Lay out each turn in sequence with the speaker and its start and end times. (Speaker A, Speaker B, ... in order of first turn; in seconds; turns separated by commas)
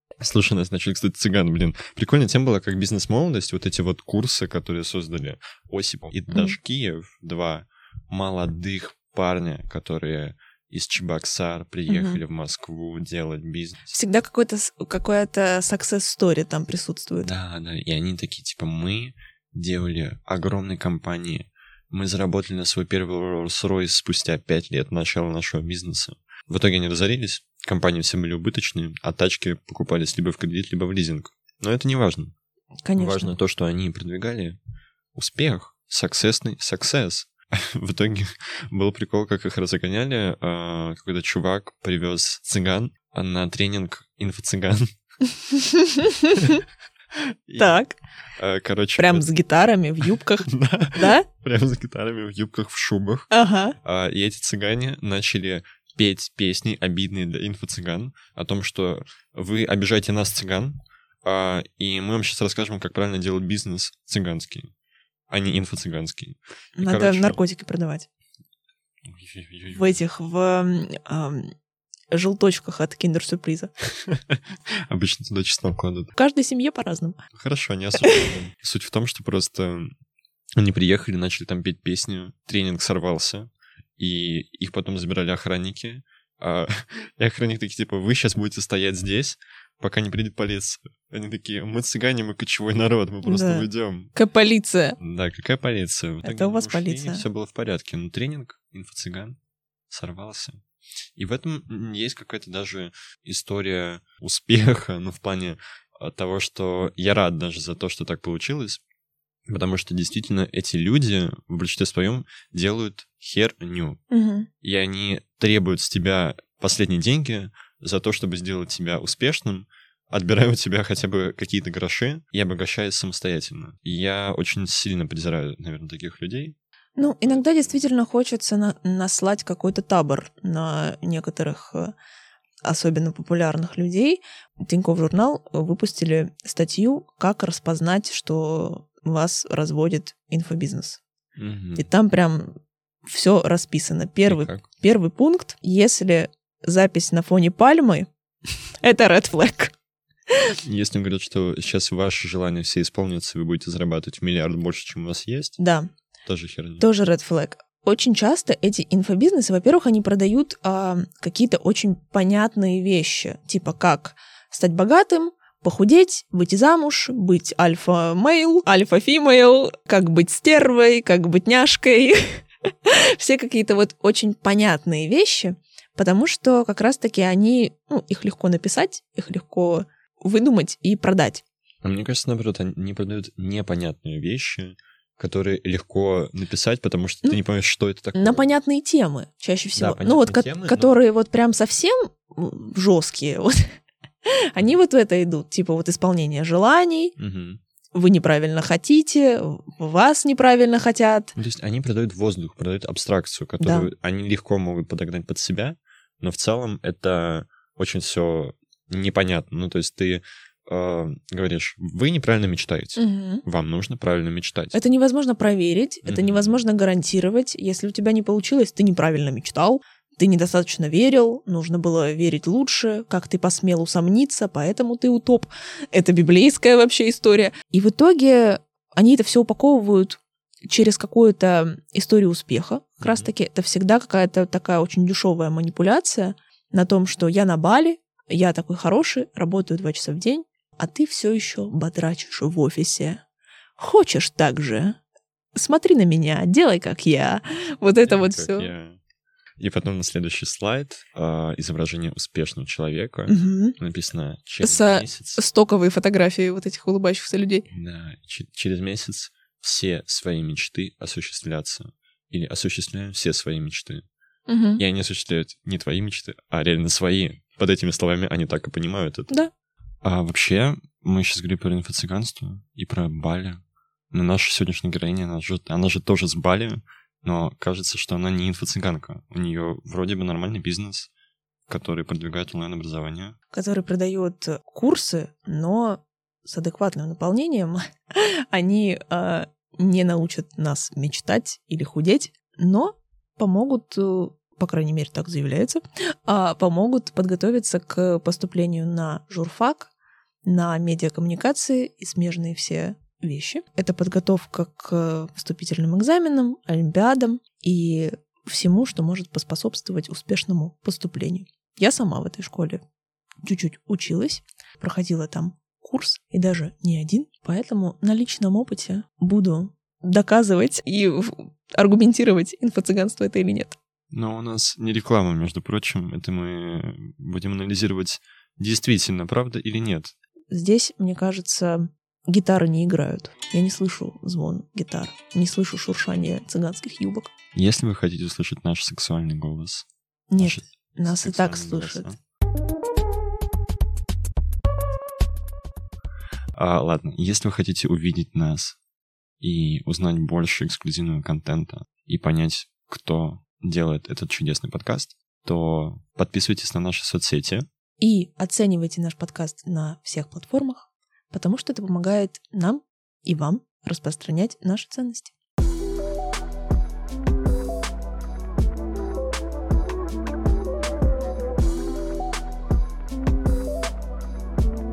Speaker A: 0.2-14.0, Speaker B: 11.9-12.2, Speaker B: 13.9-17.3, Speaker A: 17.2-32.3, Speaker B: 32.8-33.3, Speaker A: 33.0-34.6, Speaker A: 35.1-45.0, Speaker B: 45.7-46.3, Speaker A: 47.5-47.8, Speaker B: 47.6-48.0, Speaker A: 48.4-49.3, Speaker B: 49.0-51.2, Speaker A: 50.0-53.3, Speaker B: 53.3-53.8, Speaker A: 53.8-64.7, Speaker A: 65.3-67.4, Speaker B: 66.8-68.1, Speaker A: 69.1-70.0, Speaker B: 69.7-71.5, Speaker B: 72.1-73.7, Speaker A: 74.0-76.1, Speaker B: 76.2-77.2, Speaker A: 77.3-79.9, Speaker A: 80.6-94.1, Speaker B: 93.2-95.0, Speaker A: 95.0-99.4, Speaker B: 96.2-97.2, Speaker A: 99.9-100.6, Speaker A: 101.2-108.8, Speaker A: 109.5-114.0, Speaker B: 114.1-114.5, Speaker A: 114.6-126.6, Speaker B: 127.0-131.9, Speaker A: 127.2-127.9, Speaker B: 132.6-141.0, Speaker A: 141.4-141.9, Speaker B: 141.8-148.1, Speaker A: 144.2-144.7, Speaker B: 148.8-149.7, Speaker A: 150.6-155.6, Speaker B: 155.6-155.9, Speaker A: 156.2-156.9, Speaker B: 156.8-181.4, Speaker A: 181.8-188.5, Speaker B: 188.2-197.2, Speaker A: 189.8-190.9, Speaker A: 197.2-197.6, Speaker B: 197.9-201.3, Speaker A: 201.3-214.8, Speaker B: 203.6-203.9, Speaker B: 213.0-213.4, Speaker B: 214.7-243.2, Speaker A: 216.1-216.6, Speaker A: 233.0-233.3, Speaker B: 243.8-245.0, Speaker B: 245.5-248.7, Speaker A: 248.0-249.0, Speaker A: 249.6-255.4, Speaker B: 253.3-253.8, Speaker B: 254.6-257.6, Speaker A: 257.7-264.1, Speaker B: 264.5-264.8, Speaker A: 264.8-269.4, Speaker A: 270.0-273.6, Speaker A: 274.1-281.1, Speaker A: 281.7-283.4, Speaker B: 283.5-299.9, Speaker B: 300.4-312.8, Speaker B: 313.4-323.8, Speaker A: 324.1-330.1, Speaker B: 330.5-337.3, Speaker A: 337.5-339.9, Speaker B: 340.3-342.1, Speaker A: 340.4-342.2, Speaker A: 346.6-348.8, Speaker A: 349.4-357.7, Speaker B: 358.0-365.3